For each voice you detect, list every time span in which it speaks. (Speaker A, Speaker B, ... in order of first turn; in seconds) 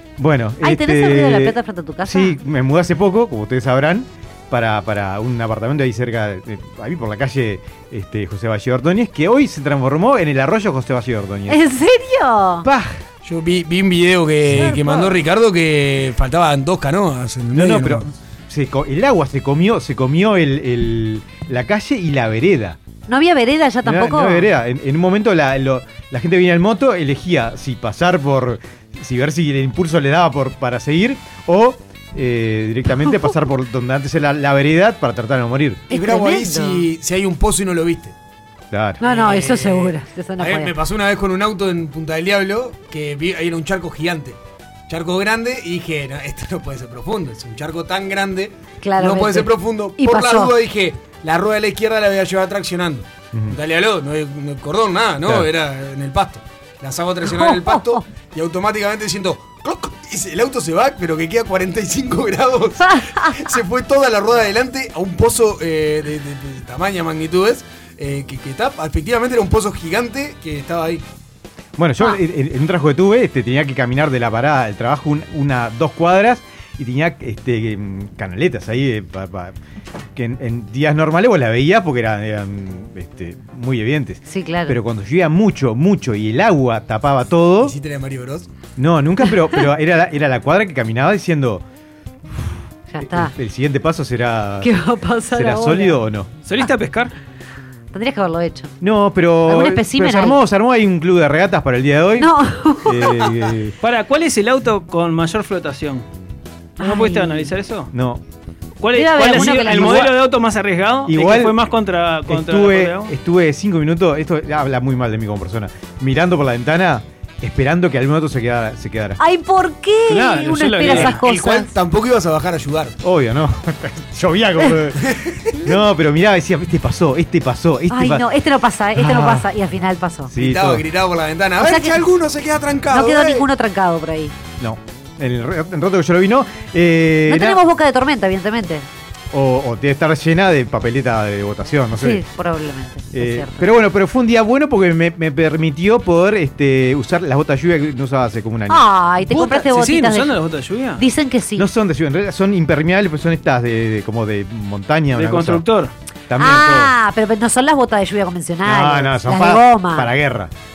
Speaker A: 0.2-11.6, 12.6-13.0, 17.5-22.8, 23.8-35.9, 38.7-39.0, 55.2-55.5, 71.8-79.5, 80.1-87.8, 88.8-91.6, 92.3-94.7, 95.3-96.3, 98.8-102.3, 102.8-103.8, 107.9-108.2, 109.7-110.1, 111.0-111.6, 112.3-119.2, 123.0-128.2, 128.9-129.5, 130.3-130.8, 134.6-137.6, 139.3-142.2, 143.1-148.9, 151.6-155.7, 156.3-156.9, 158.6-160.5
Speaker B: 0.6-2.4, 11.5-12.6, 23.1-24.5, 35.9-36.8, 39.0-40.7, 48.8-50.5, 57.5-57.7, 84.3-84.8, 92.9-93.3, 94.6-96.0, 97.9-98.7, 99.5-100.4, 102.2-103.0, 106.8-107.5, 108.9-110.1, 119.2-121.7, 127.9-130.3, 131.6-132.0, 132.9-134.3, 137.3-138.8, 141.9-143.6, 148.7-150.3, 151.0-151.7, 156.4-160.1
Speaker C: 13.2-18.1, 35.9-38.1, 39.0-71.0, 87.6-88.5, 120.8-123.0, 125.0-125.5, 130.4-133.4
Speaker D: 96.4-97.1, 103.8-106.0, 106.8-107.9, 108.8-113.1, 120.1-121.2, 149.3-151.1, 155.1-155.9